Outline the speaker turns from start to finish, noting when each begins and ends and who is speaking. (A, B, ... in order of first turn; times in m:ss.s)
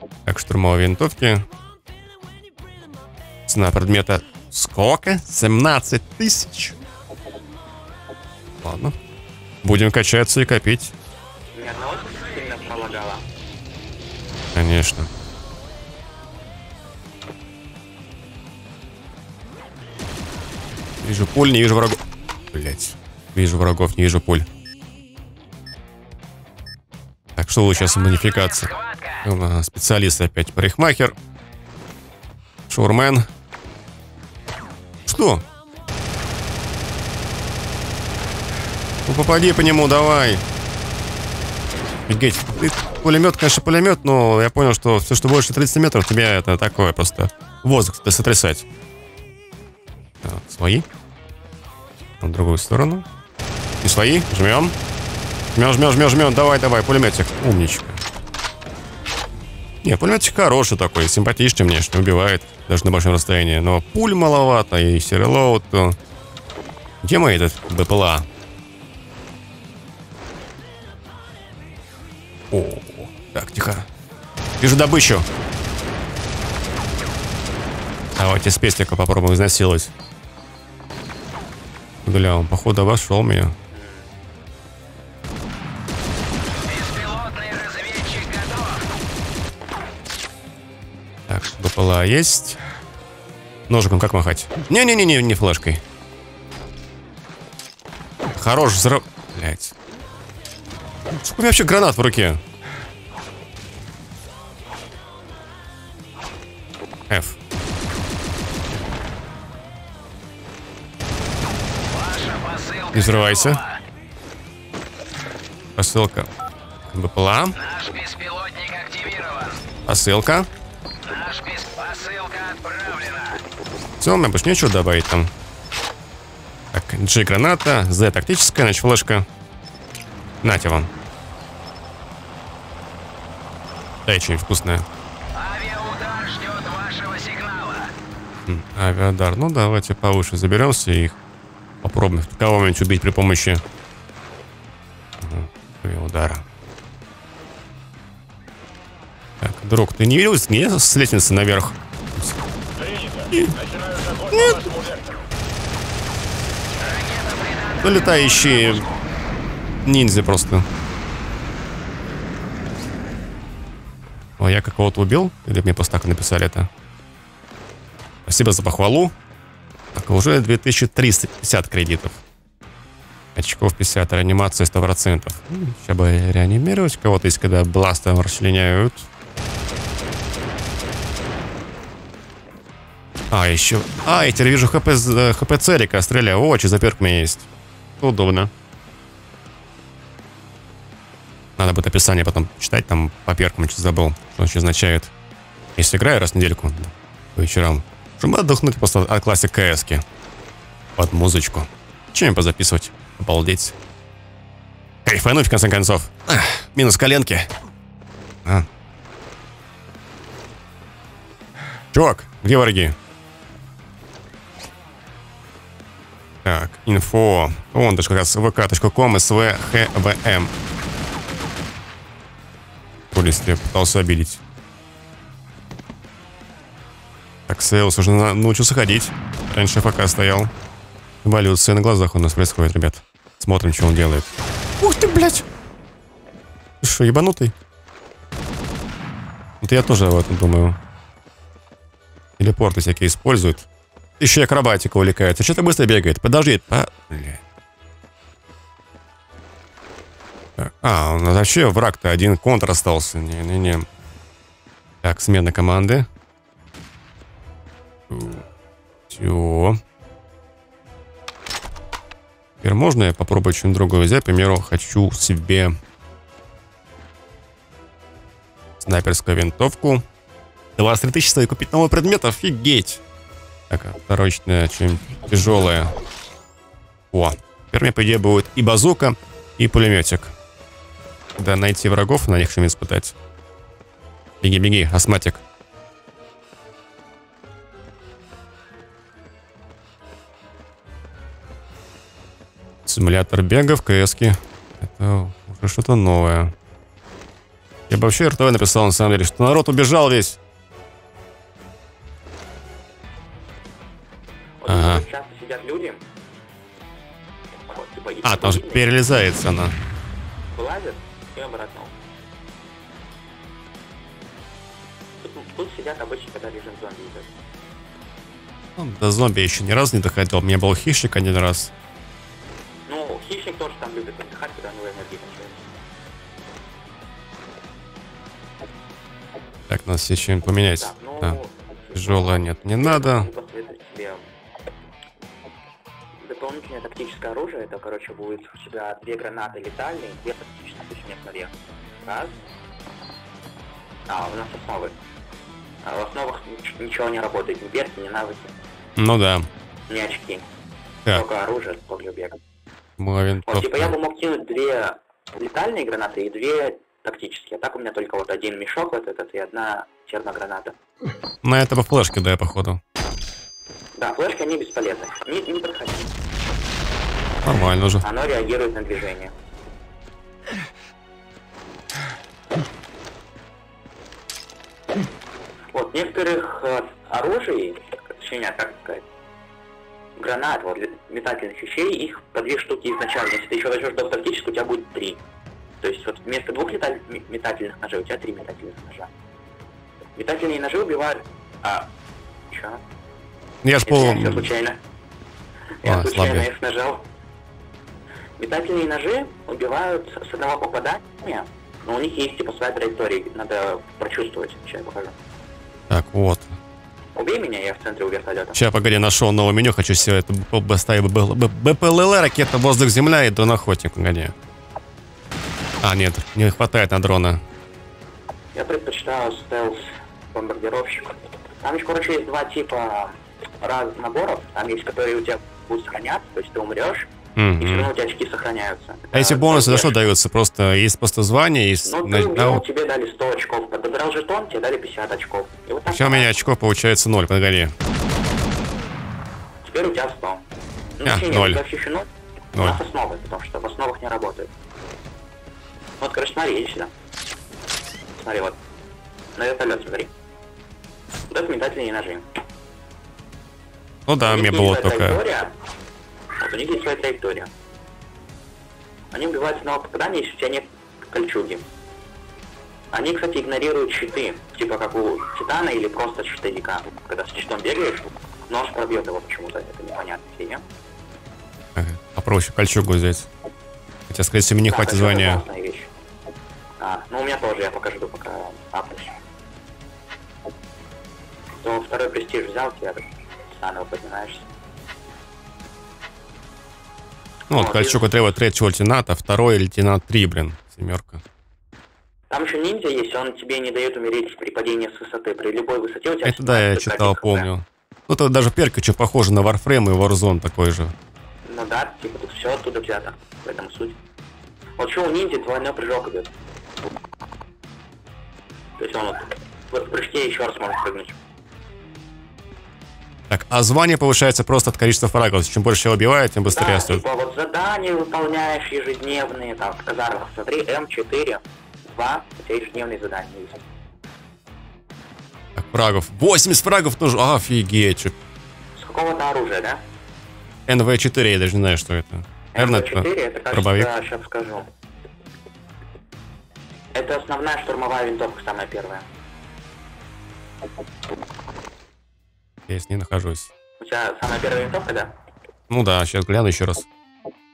0:00.2-0:01.5 A
0:03.5-0:06.8 A
0:08.6-0:09.0 A
0:09.6-0:10.9 A
0:11.5-0:13.2 B
0:14.5-0:15.1 A
0:21.0-0:24.5 A
0:27.4-0:28.7 A
0:27.8-0:29.2 C
0:29.2-0:31.1 A
0:32.7-0:33.3 A
0:35.0-0:35.4 A
0:39.0-0:40.4 A
0:42.1-0:48.6 A
0:50.2-0:50.9 A
0:52.2-0:53.0 A
0:53.8-0:54.8 A
0:55.5-0:58.0 A
0:59.8-1:06.0 A
1:07.0-1:08.3 A
1:12.5-1:13.9 A
1:14.6-1:15.2 A
1:18.2-1:19.9 A
1:22.0-1:23.5 A
1:23.7-1:24.1 B
1:26.6-1:28.9 C
1:31.3-1:32.6 A
1:33.7-1:35.8 A
1:38.3-1:39.7 A
1:41.2-1:42.4 A
1:47.1-1:47.4 A
1:51.8-1:53.8 C
1:52.9-1:53.6 A
1:55.8-1:56.3 A
1:56.9-1:57.6 A
1:57.5-1:59.6 C
1:59.9-2:00.5 A
2:01.0-2:03.4 C
2:04.0-2:05.3 A
2:06.7-2:09.2 A
2:10.4-2:10.9 A
2:14.0-2:14.9 A
2:15.3-2:17.9 C
2:18.5-2:21.2 A
2:21.8-2:23.6 A
2:25.2-2:26.4 A
2:29.4-2:32.4 A
2:33.3-2:33.6 A
2:34.2-2:34.7 A
2:36.8-2:38.9 C
2:37.8-2:38.9 A
2:39.8-2:40.7 A
2:44.4-2:46.7 A
2:48.2-2:49.1 A
2:49.9-2:52.2 A
2:53.3-2:59.1 A
3:03.3-3:07.5 A
3:08.0-3:08.5 A
3:11.6-3:15.1 A
3:15.8-3:20.0 A
3:21.0-3:23.8 A
3:25.0-3:27.5 A
3:31.9-3:33.0 A
3:36.4-3:40.5 A
3:43.1-3:44.4 A
3:47.5-3:50.5 A
3:51.2-3:55.4 A
3:56.8-3:57.5 A
3:59.6-4:00.8 A
4:02.4-4:03.7 A
4:04.2-4:07.4 A
4:10.6-4:13.9 A
4:15.0-4:16.1 A
4:18.1-4:18.5 A
4:19.1-4:19.8 A
4:22.6-4:25.8 A
4:28.8-4:30.0 A
4:30.8-4:33.0 A
4:33.7-4:35.9 A
4:37.1-4:40.3 A
4:41.4-4:43.1 A
4:44.4-4:45.4 A
4:52.8-4:56.5 A
4:57.9-5:00.4 A
5:04.6-5:06.0 B
5:04.7-5:05.0 A
5:07.7-5:08.9 B
5:08.2-5:09.7 A
5:10.5-5:12.0 B
5:15.2-5:17.3 B
5:18.8-5:21.7 A
5:22.9-5:25.7 B
5:29.7-5:31.4 A
5:30.7-5:34.2 B
5:32.0-5:33.3 A
5:36.2-5:42.4 B
5:44.1-5:45.0 B
5:45.8-5:48.5 B
5:49.0-5:49.5 A
5:49.9-5:50.5 B
5:51.1-5:52.4 B
5:53.0-5:53.9 A
5:53.5-6:00.8 B
6:01.4-6:02.8 A
6:04.0-6:06.1 B
6:07.4-6:08.0 A
6:08.0-6:09.3 B
6:15.7-6:19.0 B
6:20.2-6:25.2 B
6:25.8-6:29.1 B
6:30.2-6:31.9 B
6:32.5-6:32.8 B
6:33.6-6:34.5 A
6:33.8-6:34.8 B
6:35.8-6:37.1 B
6:35.8-6:36.5 A
6:38.4-6:45.2 B
6:45.9-6:46.6 A
6:47.1-6:48.6 B
6:48.5-6:54.3 A
6:55.8-6:57.4 A
6:58.5-7:10.0 B
7:07.4-7:07.9 A
7:09.1-7:12.6 A
7:11.8-7:16.4 B
7:15.9-7:17.7 A
7:19.6-7:20.4 B
7:21.0-7:24.5 B
7:21.0-7:21.6 A
7:22.5-7:22.8 A
7:26.0-7:26.9 B
7:28.2-7:28.6 B
7:29.3-7:30.1 B
7:31.3-7:32.2 B
7:34.1-7:35.2 A
7:34.2-7:35.5 B
7:36.4-7:37.5 B
7:39.1-7:41.6 B
7:42.9-7:50.6 B
7:51.8-7:53.3 A
7:54.1-7:55.4 A
7:54.6-7:55.9 B
7:56.8-7:59.2 B
8:01.6-8:04.5 B
8:07.5-8:11.2 A
8:07.5-8:08.0 B
8:12.3-8:17.5 B
8:16.2-8:20.9 A
8:21.4-8:24.0 B
8:24.8-8:26.3 B
8:28.8-8:31.2 B
8:33.3-8:37.0 A
8:36.5-8:43.6 B
8:45.5-8:48.2 A
8:48.8-8:49.8 B
8:50.7-8:53.9 A
8:52.5-8:54.7 B
8:56.9-8:59.0 B
9:02.7-9:03.5 A
9:03.8-9:05.1 B
9:05.7-9:06.9 A